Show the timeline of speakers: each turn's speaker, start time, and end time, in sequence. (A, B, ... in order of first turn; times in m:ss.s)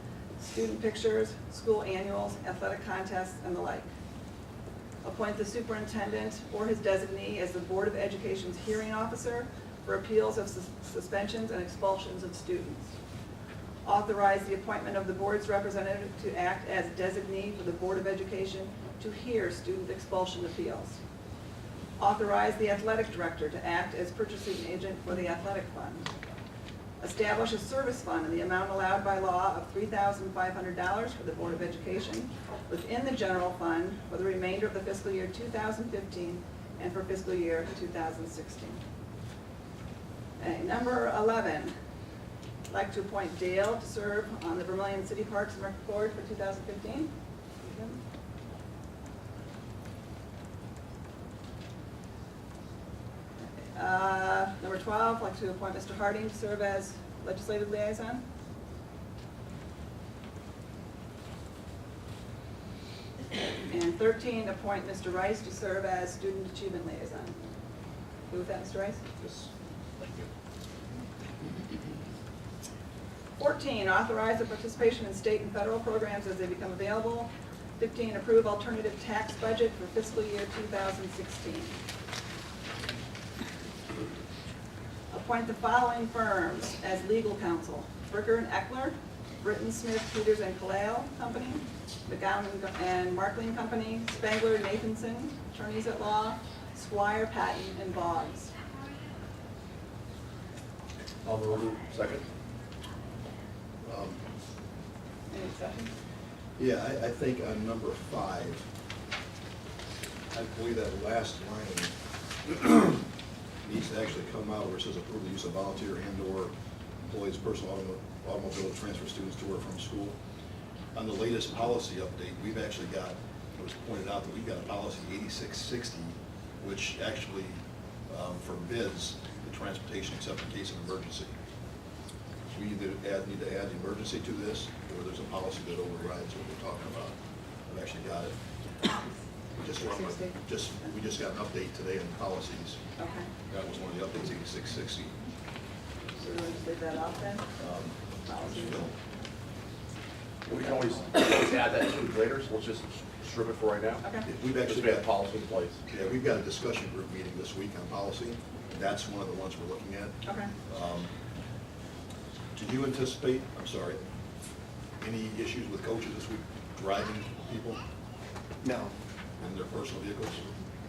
0:00.4-0:03.9 A
0:05.0-0:12.9 A
0:13.8-0:21.0 A
0:22.0-0:26.1 A
0:27.0-0:38.8 A
0:40.4-0:41.7 A
0:42.7-0:48.0 A
0:53.6-0:58.2 A
1:03.6-1:07.4 A
1:08.3-1:09.0 A
1:09.2-1:09.5 B
1:10.0-1:10.3 B
1:13.4-1:21.8 A
1:25.1-1:38.5 A
1:41.2-1:42.2 B
1:43.8-1:44.2 C
1:45.3-1:45.9 A
1:46.6-1:48.7 C
1:50.3-1:51.9 C
1:52.4-1:53.0 C
1:53.6-1:56.5 C
1:57.0-2:00.2 C
2:00.9-2:11.3 C
2:12.5-2:18.4 C
2:19.6-2:22.8 C
2:19.8-2:20.4 A
2:23.0-2:23.3 A
2:23.5-2:25.2 C
2:26.2-2:27.5 A
2:27.6-2:28.9 C
2:28.2-2:28.9 A
2:30.4-2:35.8 B
2:34.0-2:34.3 A
2:34.2-2:35.1 C
2:35.9-2:41.1 C
2:40.2-2:40.5 A
2:42.5-2:44.0 C
2:45.0-2:47.8 C
2:49.4-2:50.5 C